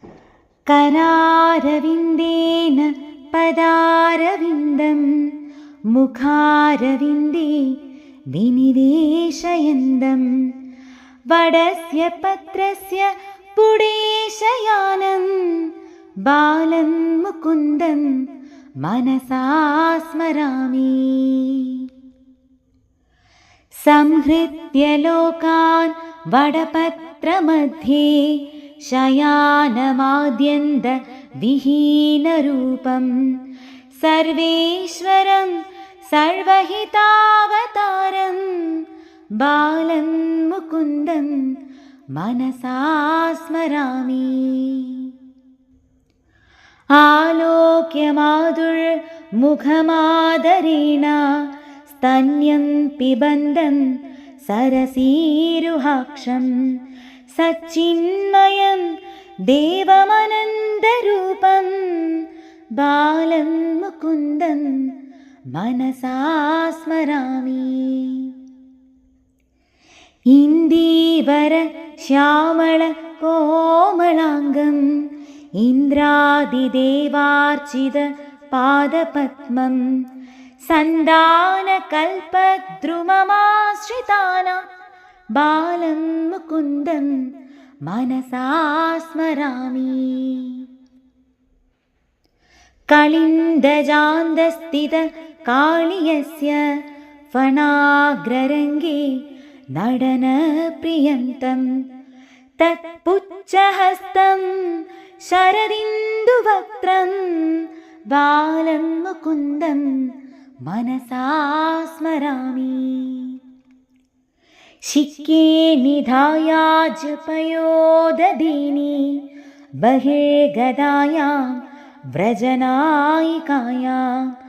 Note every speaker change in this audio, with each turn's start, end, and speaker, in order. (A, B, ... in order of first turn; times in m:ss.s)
0:00.7-0:05.3 A
0:05.9-0:07.7 A
0:08.3-0:10.3 A
0:11.3-0:15.7 A
0:16.2-0:18.1 A
0:18.8-0:21.9 A
0:23.8-0:33.1 A
0:34.0-0:38.8 A
0:39.4-0:41.4 A
0:42.1-0:45.1 A
0:46.9-0:51.2 A
0:51.9-0:53.8 A
0:54.4-0:56.5 A
0:57.3-0:58.8 A
0:59.4-1:02.2 A
1:02.8-1:04.9 A
1:05.5-1:08.3 A
1:10.3-1:14.9 A
1:15.6-1:19.9 A
1:20.6-1:24.6 A
1:25.3-1:27.2 A
1:27.8-1:30.6 A
1:32.9-1:36.6 A
1:37.3-1:39.1 A
1:39.7-1:41.6 A
1:42.6-1:49.9 A
1:50.6-1:53.4 A
1:54.8-1:59.2 A
1:59.8-2:01.6 A
2:02.1-2:04.3 A